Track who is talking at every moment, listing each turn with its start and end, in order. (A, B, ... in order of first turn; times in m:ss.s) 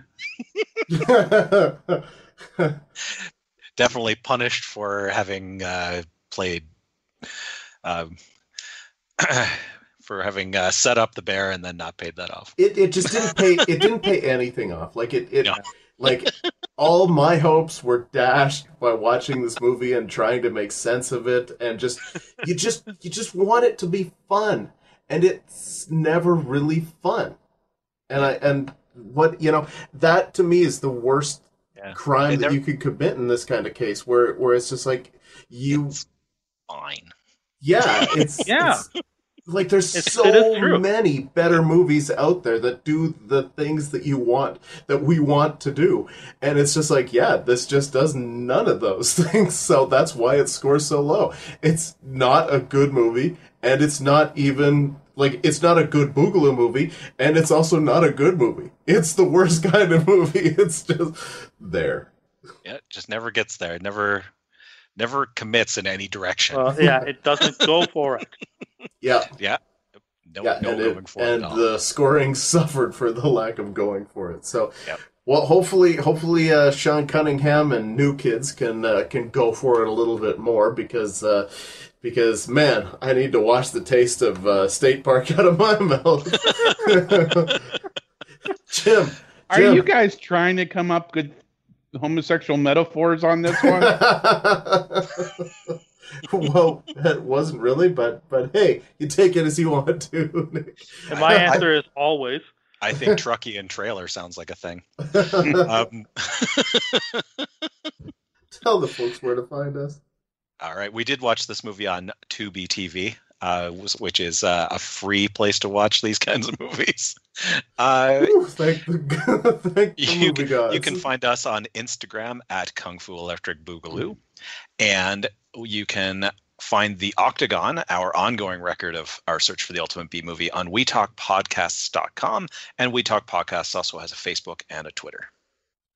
0:00.9-0:02.0 A
0:03.0-0:06.6 B
0:07.8-0:08.2 B
0:09.2-0:12.5 B
0:12.6-0:27.4 A
0:13.1-0:13.4 B
0:28.1-0:36.0 A
0:31.8-0:32.6 B
0:35.7-0:36.0 B
0:36.7-0:37.1 B
0:37.6-0:38.8 A
0:38.0-0:38.5 B
0:38.5-0:38.8 C
0:39.5-1:02.1 A
0:40.0-0:40.8 C
1:02.6-1:04.3 B
1:05.0-1:06.8 B
1:06.5-1:08.4 C
1:09.0-1:09.3 A
1:10.2-1:11.6 B
1:10.4-1:27.6 A
1:26.4-1:26.9 B
1:28.7-1:29.8 A
1:29.5-1:31.4 D
1:31.9-1:34.0 D
1:33.5-1:41.6 A
1:41.1-1:41.6 B
1:41.1-1:42.5 C
1:42.8-1:44.8 B
1:42.9-1:43.2 A
1:45.1-1:45.7 A
1:45.6-1:47.6 B
1:48.5-1:50.0 A
1:50.6-1:58.3 B
1:58.2-2:01.0 A
2:00.0-2:04.2 B
2:04.8-2:15.3 B